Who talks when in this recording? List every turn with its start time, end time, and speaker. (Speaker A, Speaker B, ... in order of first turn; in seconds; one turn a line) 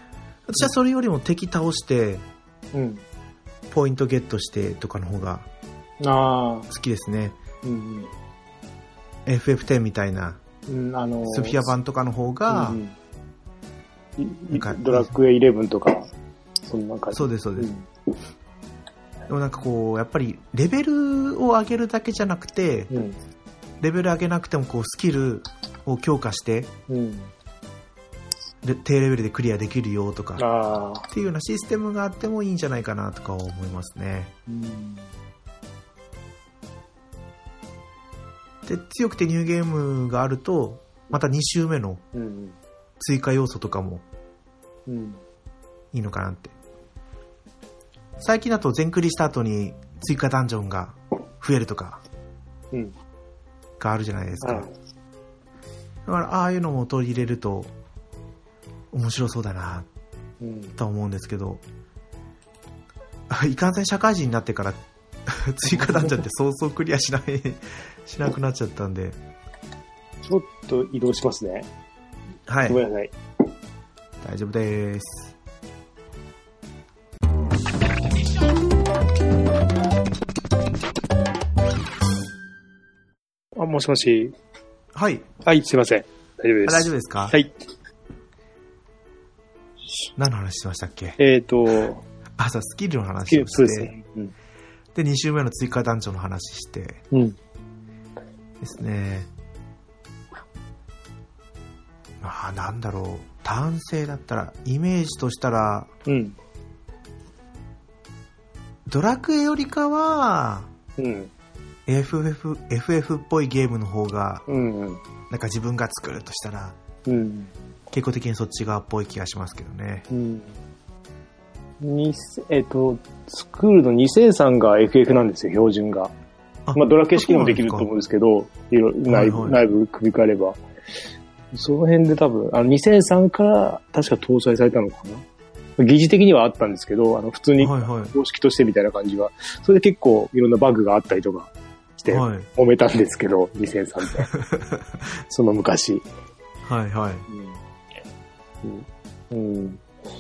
Speaker A: 0.5-2.2
Speaker B: 2.7-3.0
Speaker A: 3.7-5.5
Speaker B: 6.0-6.7
Speaker A: 6.7-7.4
Speaker B: 7.6-8.1
Speaker A: 9.3-10.4
Speaker B: 10.7-11.7
Speaker A: 11.3-12.8
Speaker B: 12.5-12.9
Speaker B: 14.2-16.1
Speaker A: 14.5-15.1
Speaker B: 16.7-17.9
Speaker A: 17.1-17.7
Speaker A: 19.3-22.9
Speaker B: 22.9-23.2
Speaker A: 23.8-26.7
Speaker B: 26.9-27.3
Speaker A: 28.6-30.5
Speaker B: 30.4-31.1
Speaker A: 31.1-34.3
Speaker B: 34.5-35.1
Speaker A: 38.6-42.0
Speaker B: 42.1-42.6
Speaker A: 43.0-44.0
Speaker B: 44.9-45.2
Speaker A: 45.9-46.5
Speaker A: 48.2-52.0
Speaker A: 53.8-54.7
Speaker B: 54.4-54.7
Speaker A: 56.1-57.7
Speaker A: 58.9-59.9
Speaker B: 60.4-60.8
Speaker A: 60.8-61.6
Speaker A: 63.3-69.2
Speaker B: 65.7-66.2
Speaker B: 70.2-71.7
Speaker A: 72.5-72.8
Speaker B: 72.7-73.1
Speaker A: 74.2-75.3
Speaker B: 83.6-84.3
Speaker A: 84.9-85.3
Speaker B: 85.4-87.5
Speaker A: 86.7-87.3
Speaker A: 90.2-91.2
Speaker B: 91.2-92.0
Speaker A: 92.4-93.9
Speaker B: 93.3-94.3
Speaker A: 95.0-97.0
Speaker B: 97.1-97.4
Speaker A: 98.6-99.3
Speaker A: 102.2-105.9
Speaker B: 106.1-106.4
Speaker A: 108.9-110.7
Speaker B: 111.0-111.3
Speaker A: 111.9-114.5
Speaker B: 114.5-115.0
Speaker A: 115.3-116.8
Speaker B: 117.1-117.5
Speaker A: 117.9-120.1
Speaker B: 120.1-120.5
Speaker B: 121.8-126.1
Speaker A: 126.7-127.9
Speaker B: 126.7-130.6
Speaker A: 129.1-129.6
Speaker B: 131.5-135.2
Speaker B: 135.8-144.3
Speaker A: 137.6-138.1
Speaker A: 142.1-142.5
Speaker A: 144.3-144.9
Speaker B: 145.3-146.1
Speaker A: 146.7-147.3
Speaker B: 147.3-147.6
Speaker B: 148.6-149.8